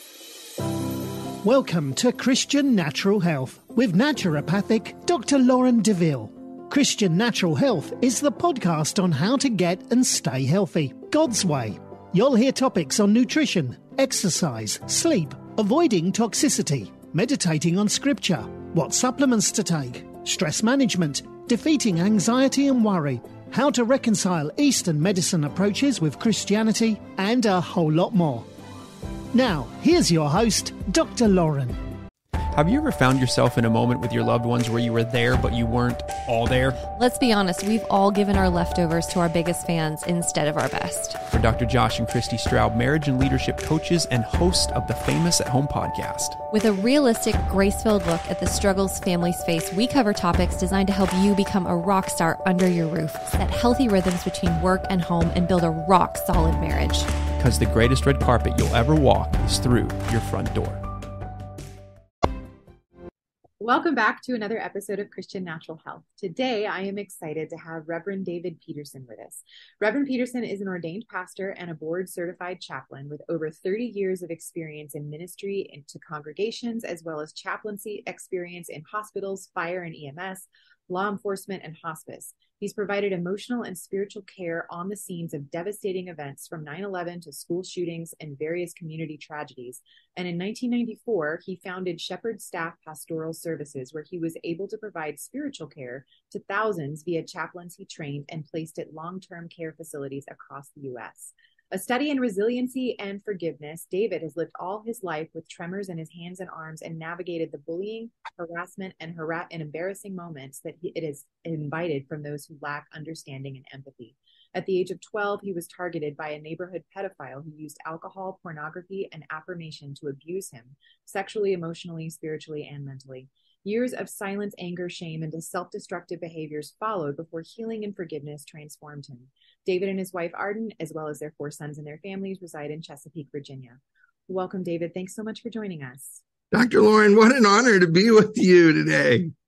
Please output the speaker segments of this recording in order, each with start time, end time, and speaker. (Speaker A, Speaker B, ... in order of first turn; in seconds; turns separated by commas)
Speaker A: 1.4-28.5, Speaker A: 29.3-31.8, Speaker B: 32.5-36.8, Speaker C: 37.0-41.2, Speaker B: 41.3-46.4, Speaker C: 46.5-57.1, Speaker B: 57.4-60.8, Speaker D: 63.6-136.2, Speaker E: 136.5-139.3